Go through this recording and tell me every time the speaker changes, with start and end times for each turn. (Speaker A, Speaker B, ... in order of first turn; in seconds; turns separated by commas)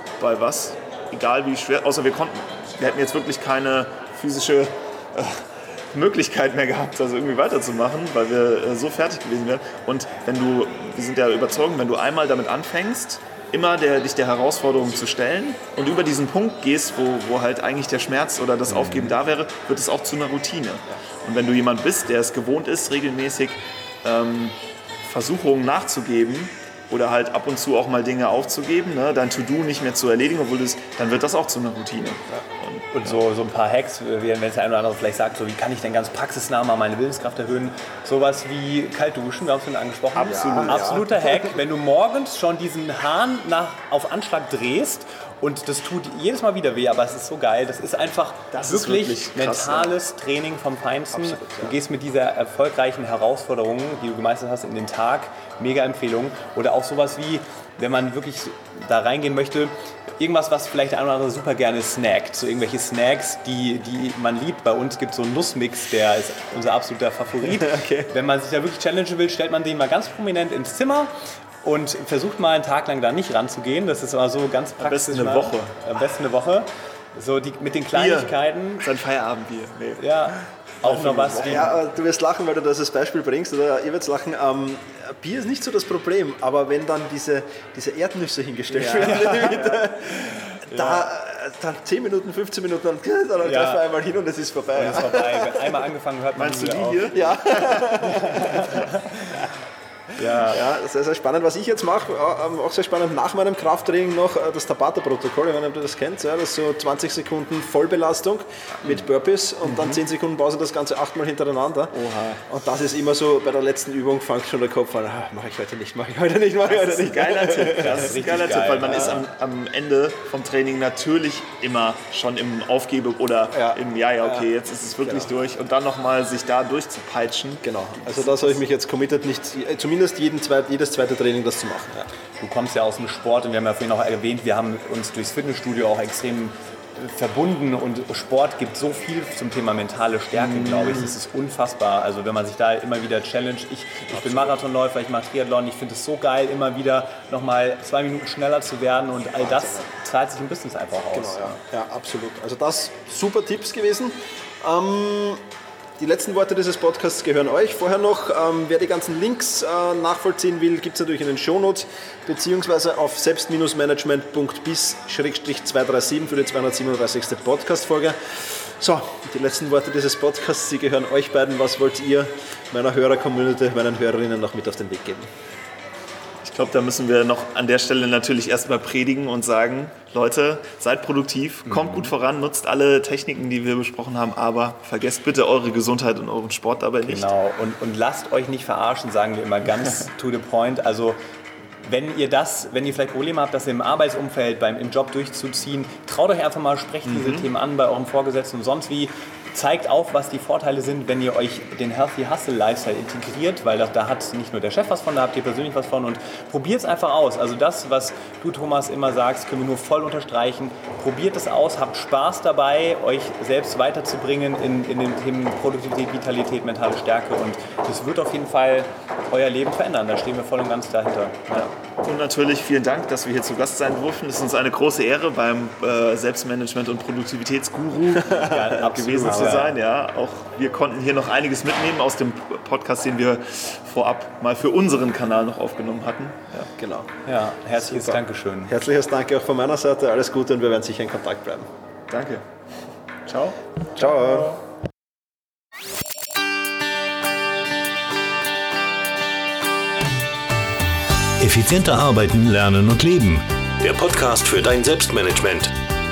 Speaker A: 0.2-33.1, Speaker B: 18.7-19.2, Speaker B: 32.9-71.1, Speaker A: 40.2-41.0, Speaker C: 40.3-41.1, Speaker A: 48.5-50.0, Speaker C: 51.2-51.7, Speaker C: 67.5-68.1, Speaker B: 71.6-78.9, Speaker A: 74.8-75.8, Speaker A: 77.9-81.8, Speaker B: 80.0-81.7, Speaker C: 81.4-95.7, Speaker A: 88.7-89.9, Speaker B: 88.9-91.1, Speaker B: 93.4-93.9, Speaker B: 94.7-99.5, Speaker A: 96.3-97.9, Speaker C: 97.1-98.8, Speaker B: 100.2-100.6, Speaker C: 100.3-118.2, Speaker A: 111.9-112.4, Speaker A: 116.7-128.5, Speaker B: 117.7-119.2, Speaker C: 118.8-119.2, Speaker C: 123.5-125.3, Speaker C: 127.6-132.1, Speaker B: 132.4-151.6, Speaker A: 140.4-141.1, Speaker C: 149.4-149.8, Speaker C: 151.1-155.4, Speaker C: 156.0-175.3, Speaker A: 176.4-187.3, Speaker B: 181.7-182.1, Speaker B: 187.1-191.2, Speaker B: 191.8-221.7, Speaker A: 197.1-197.5, Speaker A: 221.5-236.7, Speaker C: 228.2-229.7, Speaker B: 228.3-229.7, Speaker C: 236.8-237.1, Speaker B: 237.3-238.7, Speaker C: 237.8-241.7, Speaker A: 242.1-242.4, Speaker A: 243.3-244.6, Speaker C: 244.0-244.5, Speaker D: 251.4-255.8